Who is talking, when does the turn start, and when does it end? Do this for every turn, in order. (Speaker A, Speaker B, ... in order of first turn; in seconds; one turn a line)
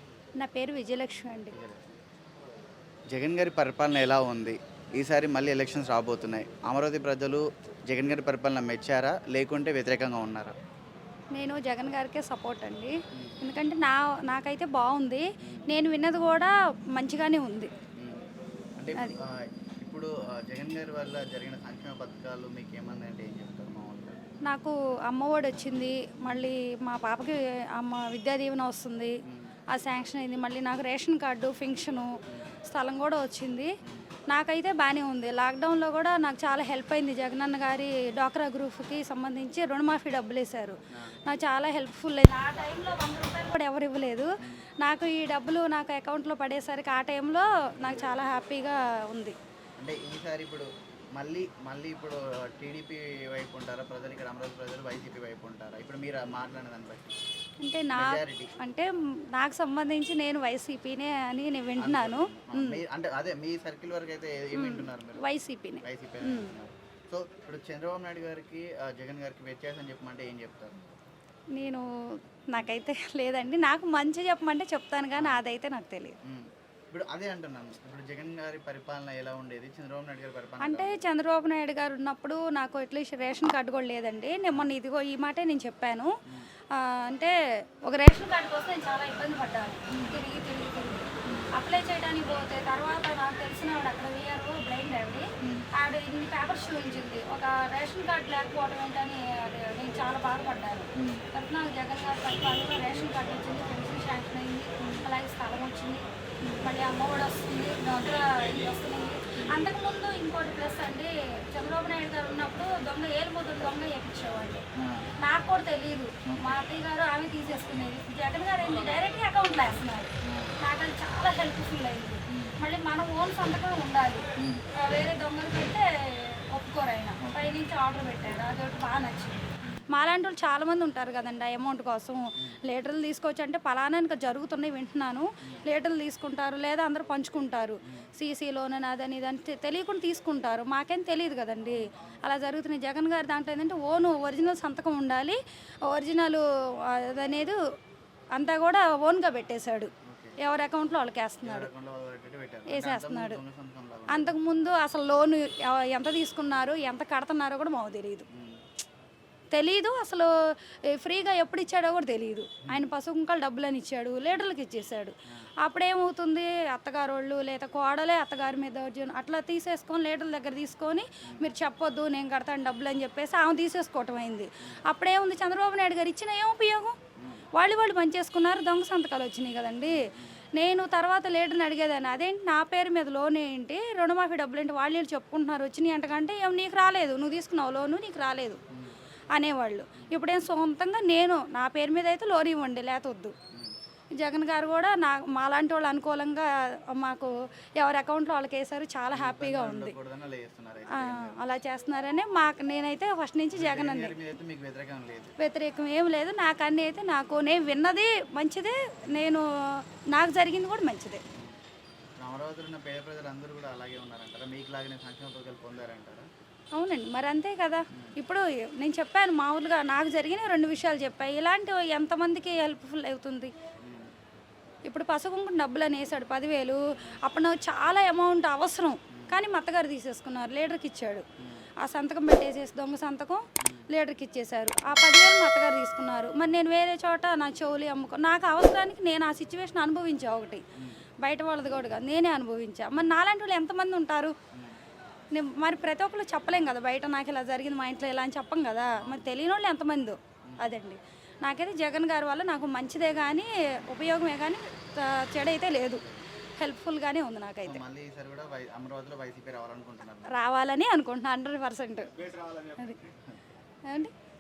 Speaker A: 0.4-1.6
Speaker B: 1.5-1.8
Speaker B: 3.1-10.6
Speaker A: 11.3-17.7
Speaker B: 18.8-24.2
Speaker A: 24.5-29.1
Speaker B: 29.3-29.6
Speaker A: 29.7-32.1
Speaker A: 32.7-33.7
Speaker A: 34.3-49.4
Speaker B: 47.8-48.1
Speaker B: 49.8-57.1
Speaker A: 57.6-62.8
Speaker B: 58.0-58.6
Speaker B: 61.8-65.2
Speaker A: 64.5-66.5
Speaker B: 65.8-70.9
Speaker A: 71.5-71.9
Speaker A: 72.5-76.2
Speaker B: 75.2-75.4
Speaker B: 76.2-81.0
Speaker A: 80.6-86.1
Speaker A: 86.7-87.3
Speaker A: 87.9-106.0
Speaker B: 89.9-90.2
Speaker B: 91.3-91.5
Speaker B: 95.4-95.7
Speaker B: 101.0-101.2
Speaker B: 104.8-105.1
Speaker A: 106.6-114.6
Speaker B: 114.8-115.1
Speaker A: 115.2-147.6
Speaker B: 120.2-120.5
Speaker B: 122.3-122.5
Speaker B: 124.4-124.6
Speaker B: 141.7-142.2
Speaker A: 148.3-151.7
Speaker B: 150.1-150.4
Speaker B: 151.4-154.3
Speaker A: 152.7-153.4
Speaker A: 154.1-158.3
Speaker B: 158.3-158.6
Speaker A: 159.5-177.0
Speaker B: 177.2-177.5
Speaker A: 177.6-188.6
Speaker B: 179.9-180.4
Speaker A: 189.3-193.3
Speaker A: 194.2-200.0
Speaker B: 199.1-201.4
Speaker A: 200.9-204.2
Speaker B: 203.6-205.3
Speaker A: 205.4-211.2
Speaker B: 212.2-216.3
Speaker A: 216.8-223.5
Speaker B: 223.8-224.1
Speaker A: 224.9-231.2
Speaker B: 229.1-229.4
Speaker A: 231.8-240.6
Speaker B: 233.6-233.9
Speaker B: 240.8-241.0
Speaker A: 241.2-244.3
Speaker A: 245.3-256.0
Speaker B: 249.0-249.3
Speaker B: 255.9-256.2
Speaker A: 256.6-257.8
Speaker B: 257.6-260.4
Speaker A: 260.3-262.2
Speaker B: 262.4-263.1
Speaker A: 263.9-264.1